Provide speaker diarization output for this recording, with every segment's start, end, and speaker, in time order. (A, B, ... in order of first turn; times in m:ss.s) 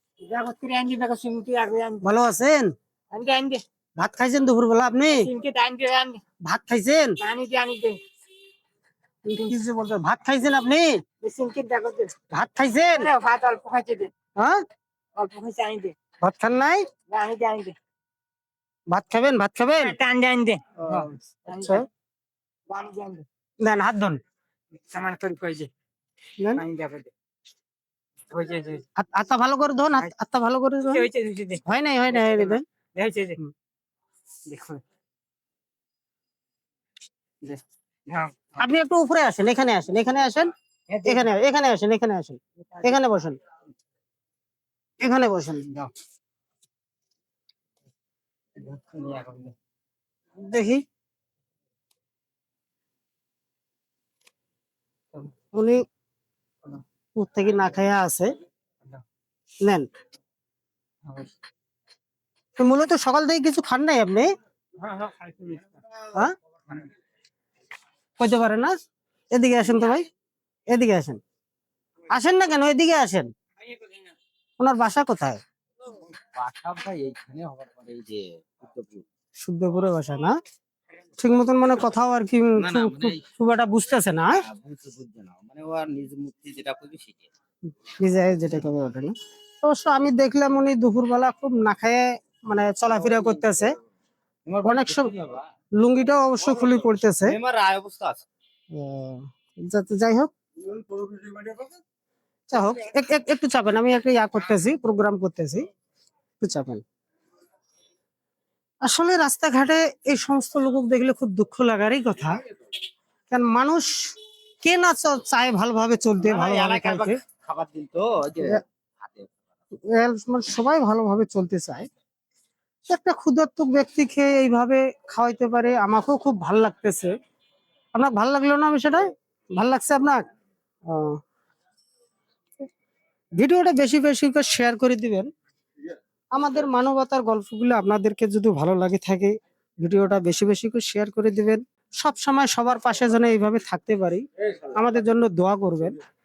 0:00.2-0:02.1 A
0:02.0-0:02.7 B
0:03.1-0:03.6 A
0:04.0-0:05.3 B
0:05.1-0:06.2 A
0:06.4-0:07.2 B
0:07.2-0:08.0 A
0:09.3-0:11.0 B
0:11.2-0:12.1 A
0:12.3-0:13.1 B
0:12.9-0:14.1 A
0:15.2-0:15.9 A
0:16.2-0:16.8 B
0:17.1-0:17.7 A
0:18.9-0:20.0 B
0:19.8-0:21.8 A
0:20.9-0:21.8 B
0:22.7-0:23.2 A
0:23.6-0:24.2 B
0:24.8-0:25.7 A
0:26.4-0:26.6 B
0:26.5-0:27.1 A
0:28.3-0:28.8 A
0:29.0-0:31.0 B
0:30.9-0:33.4 A
0:31.6-0:32.6 B
0:34.5-0:34.8 A
0:37.4-0:38.6 A
0:38.6-0:40.5 B
0:40.9-0:41.3 A
0:41.0-0:43.4 B
0:42.7-0:43.0 A
0:45.0-0:45.8 B
0:48.6-0:49.5 A
0:50.4-0:50.8 B
0:55.5-0:55.8 B
0:57.2-0:58.3 B
1:01.0-1:01.3 A
1:02.6-1:04.3 B
1:04.8-1:05.8 A
1:08.2-1:08.7 B
1:09.3-1:10.0 B
1:10.7-1:11.2 B
1:12.1-1:13.3 B
1:14.6-1:15.4 B
1:16.3-1:19.0 C
1:19.4-1:20.3 B
1:21.2-1:24.4 B
1:22.6-1:23.2 C
1:24.3-1:27.3 C
1:27.6-1:33.8 B
1:34.5-1:35.4 C
1:34.6-1:35.1 B
1:35.8-1:37.4 B
1:37.2-1:38.2 C
1:38.7-1:40.3 B
1:42.5-1:45.7 B
1:46.4-1:46.8 B
1:48.8-1:52.4 B
1:53.3-1:54.1 B
1:54.6-1:57.2 B
1:56.2-1:59.3 C
1:59.9-2:01.9 B
2:02.9-2:07.1 B
2:07.9-2:10.2 B
2:10.9-2:11.2 B
2:13.4-2:15.3 B
2:16.3-2:26.0 B